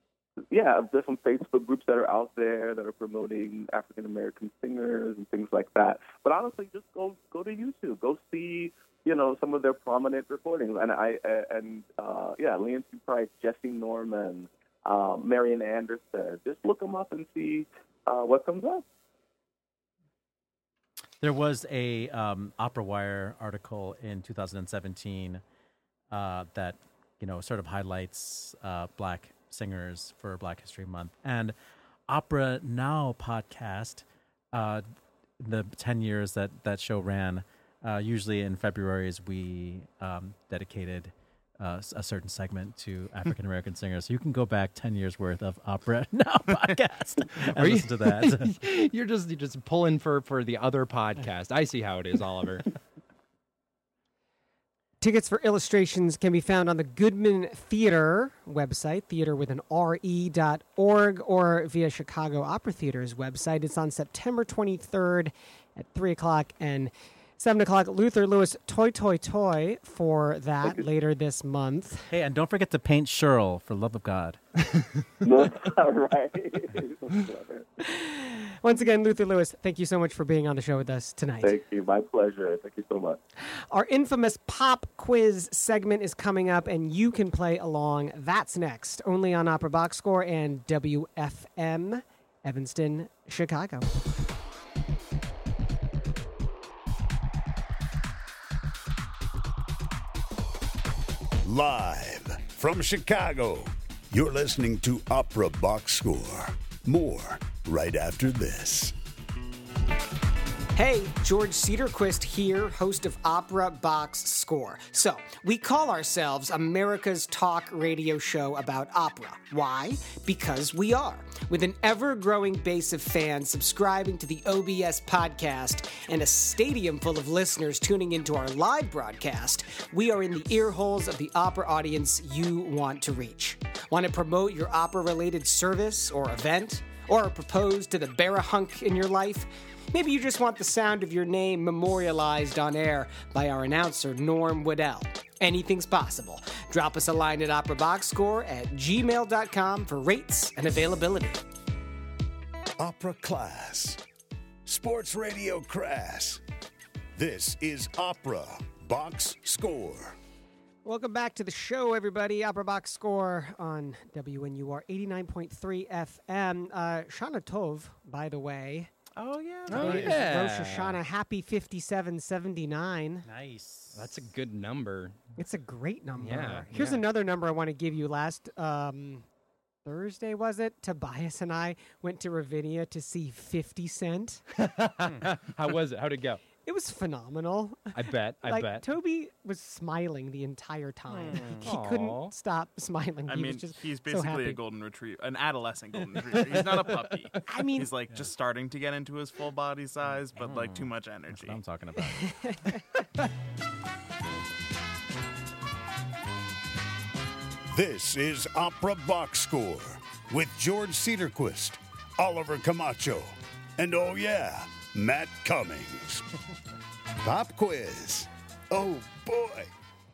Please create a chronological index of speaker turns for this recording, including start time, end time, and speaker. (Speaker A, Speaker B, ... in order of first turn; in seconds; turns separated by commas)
Speaker A: 0.5-18.8, Speaker B: 21.2-25.4, Speaker B: 26.1-31.6, Speaker B: 32.1-34.9, Speaker B: 35.4-48.5, Speaker C: 47.4-52.7, Speaker D: 55.0-72.1, Speaker B: 72.1-74.4, Speaker A: 75.2-77.7, Speaker D: 77.8-81.5, Speaker A: 81.4-83.2, Speaker D: 83.4-93.9, Speaker E: 101.4-108.9, Speaker D: 110.7-151.4, Speaker E: 152.8-154.0, Speaker E: 154.7-156.4, Speaker E: 157.2-160.2, Speaker D: 160.8-168.9, Speaker B: 169.2-170.2, Speaker C: 169.7-171.0, Speaker D: 169.7-173.3, Speaker B: 173.2-174.3, Speaker C: 173.9-175.2, Speaker D: 175.4-179.2, Speaker C: 176.2-177.0, Speaker D: 179.8-184.4, Speaker C: 184.6-186.4, Speaker D: 186.6-194.6, Speaker C: 187.9-188.9, Speaker B: 191.1-191.7, Speaker C: 191.5-192.3, Speaker F: 193.3-201.6, Speaker C: 196.3-197.4, Speaker D: 197.5-197.9, Speaker B: 200.4-202.5, Speaker D: 202.2-202.8, Speaker E: 207.7-216.2, Speaker E: 217.2-219.7